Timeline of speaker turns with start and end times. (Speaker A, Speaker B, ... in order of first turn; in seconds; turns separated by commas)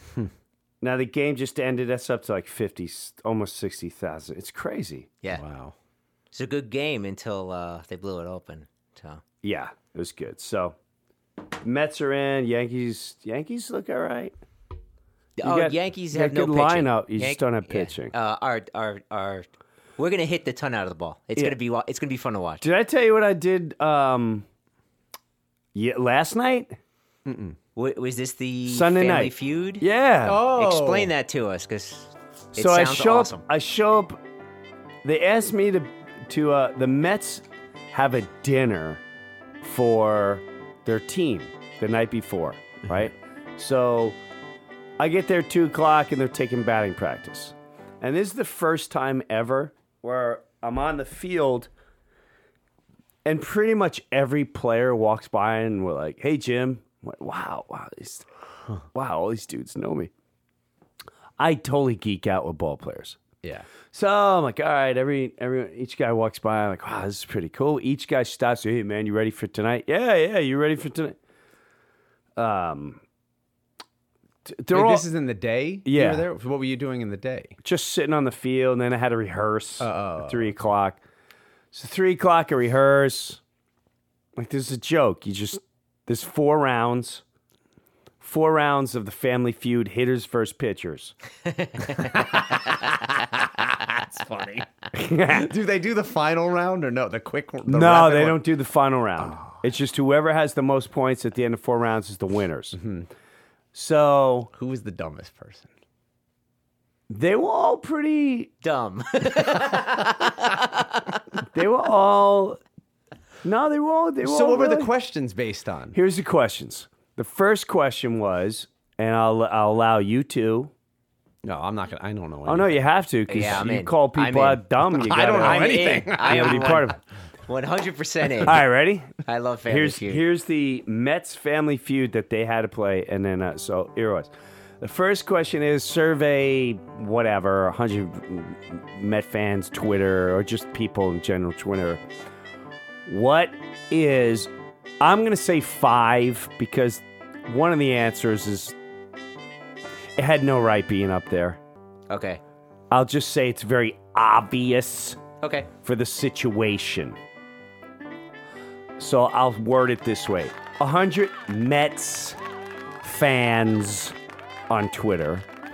Speaker A: 0.8-5.1, Speaker B: 5.3-5.7, Speaker C: 6.3-9.2, Speaker A: 9.4-10.8, Speaker A: 11.6-14.3, Speaker C: 15.4-19.5, Speaker A: 15.4-18.1, Speaker C: 20.0-22.6, Speaker A: 22.6-24.4, Speaker A: 25.8-26.8, Speaker B: 27.3-27.6, Speaker C: 27.8-29.9, Speaker A: 28.7-30.4, Speaker B: 30.2-31.1, Speaker C: 30.5-33.4, Speaker A: 32.5-34.2, Speaker A: 35.0-39.0, Speaker A: 39.6-44.2, Speaker A: 45.0-51.7, Speaker A: 53.2-58.3, Speaker A: 58.9-60.1, Speaker A: 61.4-63.2, Speaker A: 63.9-71.2, Speaker A: 72.4-73.0, Speaker A: 74.5-75.1, Speaker B: 74.7-77.6, Speaker A: 75.8-76.3, Speaker A: 77.6-81.0, Speaker B: 79.8-80.5, Speaker A: 81.7-83.4, Speaker A: 84.4-87.2, Speaker A: 88.2-91.1, Speaker C: 91.6-92.8, Speaker C: 94.3-94.6, Speaker A: 94.9-95.5, Speaker B: 95.3-98.4, Speaker A: 97.7-102.8, Speaker B: 99.3-99.5, Speaker B: 102.8-103.1, Speaker A: 103.7-104.5, Speaker B: 104.5-105.7, Speaker A: 107.1-108.5, Speaker C: 108.6-111.2, Speaker A: 111.5-112.6, Speaker A: 113.4-114.9, Speaker B: 114.2-116.0, Speaker A: 115.9-120.7, Speaker B: 121.4-122.8, Speaker A: 122.5-127.0, Speaker C: 123.3-124.6, Speaker B: 124.9-126.9, Speaker C: 125.4-126.9, Speaker C: 127.5-128.6, Speaker A: 128.4-142.0, Speaker C: 129.2-130.2, Speaker A: 143.1-148.8, Speaker A: 150.2-151.6, Speaker C: 152.1-152.4, Speaker A: 152.9-155.2, Speaker C: 155.4-155.7, Speaker A: 155.8-157.2, Speaker A: 159.0-162.4, Speaker A: 163.0-164.2, Speaker A: 164.7-165.5